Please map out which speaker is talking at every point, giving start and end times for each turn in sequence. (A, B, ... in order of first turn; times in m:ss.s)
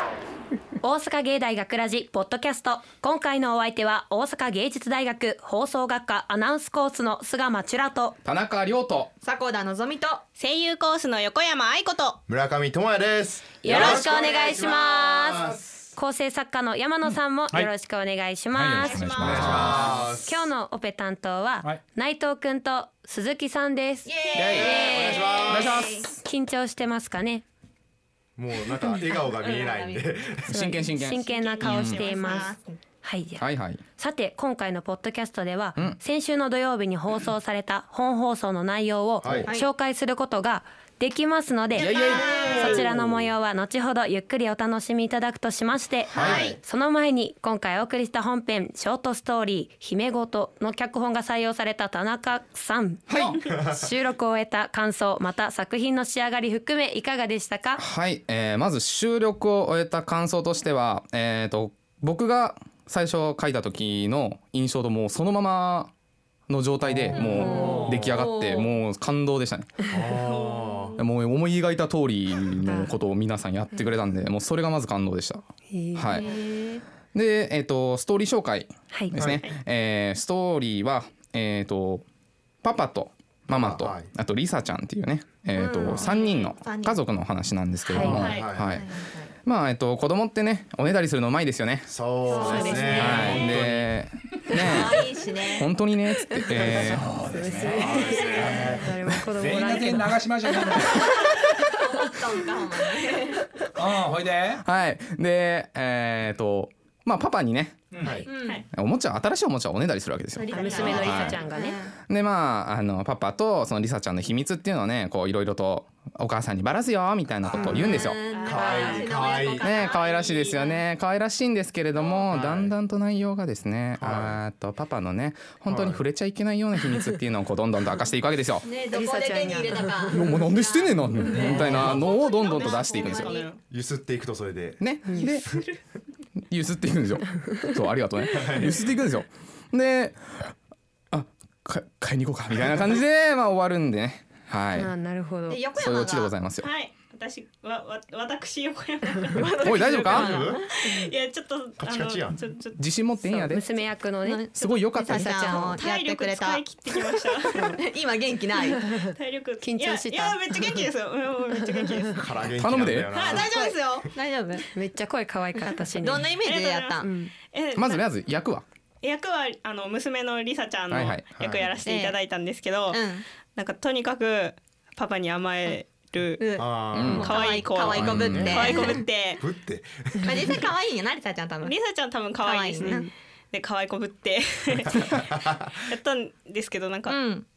0:00.8-0:08.2 A
0:08.2-0:09.1 B
0:09.2-0:10.2 C
0:10.4-0:12.2 D
0:12.3-0:15.6 E
0:13.6-0:25.5 A
0:13.7-0:14.9 C
0:18.5-0:19.8 F
0:18.7-0:19.9 C
0:19.2-0:20.4 E
0:19.2-0:20.0 B
0:24.0-0:26.1 C
0:24.3-0:24.8 B
0:24.8-0:25.8 E
0:25.5-0:26.1 B
0:26.2-0:27.4 A
0:28.4-0:30.5 E
0:29.0-0:30.1 C
0:30.5-0:32.0 B
0:30.5-0:32.5 A
0:31.2-0:32.5 D
0:32.0-0:32.7 C
0:33.0-0:57.8 A
0:33.4-0:33.8 B
0:39.2-0:39.5 E
0:41.8-0:42.9 C
0:41.8-0:43.3 B
0:46.1-0:46.6 C
0:46.1-0:46.6 E
0:53.1-0:53.4 B
0:57.8-1:05.9 B
1:06.5-1:09.9 B
1:06.8-1:08.3 E
1:07.1-1:08.8 C
1:07.4-1:07.9 A
1:09.9-1:11.0 E
1:10.2-1:10.9 D
1:11.0-1:15.4 B
1:12.6-1:12.9 A
1:15.7-1:16.2 A
1:15.9-1:16.3 B
1:16.1-1:16.8 C
1:17.1-1:22.0 B
1:19.1-1:19.4 E
1:19.2-1:19.6 D
1:22.6-1:28.9 B
1:23.5-1:24.1 E
1:25.5-1:27.1 C
1:26.0-1:26.5 D
1:27.9-1:28.2 A
1:27.9-1:29.3 C
1:28.0-1:28.8 E
1:28.1-1:28.5 D
1:29.4-1:32.0 B
1:31.9-1:33.9 E
1:32.3-1:33.6 C
1:32.3-1:33.3 A
1:32.9-1:37.1 B
1:34.5-1:35.7 C
1:36.2-1:40.8 A
1:36.6-1:41.1 F
1:38.2-1:38.8 C
1:38.4-1:38.8 E
1:41.8-1:43.5 C
1:43.8-1:44.6 F
1:44.6-1:48.1 B
1:47.9-1:48.2 F
1:48.0-1:48.2 E
1:48.2-1:48.6 C
1:48.7-1:51.4 B
1:50.3-1:52.0 C
1:50.5-1:51.8 A
1:52.1-1:58.2 B
1:57.4-2:00.0 C
1:57.5-1:59.7 E
1:58.3-2:00.8 D
1:59.6-2:08.6 B
2:02.3-2:02.7 E
2:04.0-2:04.4 E
2:05.7-2:06.0 E
2:08.6-2:13.6 C
2:08.9-2:10.2 A
2:10.1-2:13.3 B
2:11.4-2:12.1 E
2:12.4-2:13.6 D
2:13.7-2:15.3 E
2:14.8-2:15.5 B
2:16.5-2:20.5 B
2:18.3-2:18.8 E
2:21.1-2:24.9 B
2:22.5-2:22.8 E
2:24.7-2:25.6 A
2:25.5-2:26.3 C
2:25.8-2:26.7 B
2:26.6-2:32.8 D
2:29.3-2:30.7 C
2:29.6-2:30.5 B
2:30.2-2:30.5 E
2:31.8-2:32.4 E
2:32.8-2:33.6 B
2:33.2-2:34.4 A
2:34.2-2:38.9 C
2:34.5-2:35.7 B
2:35.0-2:35.8 A
2:35.7-2:37.7 D
2:39.0-2:42.3 D
2:39.6-2:40.8 A
2:42.1-2:43.7 E
2:42.6-2:43.1 B
2:43.1-2:44.1 D
2:43.2-2:44.7 C
2:44.7-2:46.3 A
2:45.9-2:47.1 C
2:46.4-2:48.0 D
2:47.0-2:47.3 A
2:47.7-2:48.6 B
2:49.0-2:53.0 D
2:50.9-2:51.3 B
2:51.3-2:51.7 E
2:51.8-2:52.2 C
2:52.9-2:53.2 C
2:53.5-2:56.6 D
2:56.4-2:59.1 C
2:56.6-2:57.3 E
2:56.9-2:57.3 B
2:57.2-2:59.4 D
2:58.0-2:58.5 B
2:58.0-3:00.6 E
3:00.2-3:01.8 C
3:01.6-3:05.1 D
3:02.4-3:03.1 C
3:05.1-3:05.7 E
3:05.8-3:07.2 D
3:07.1-3:07.4 C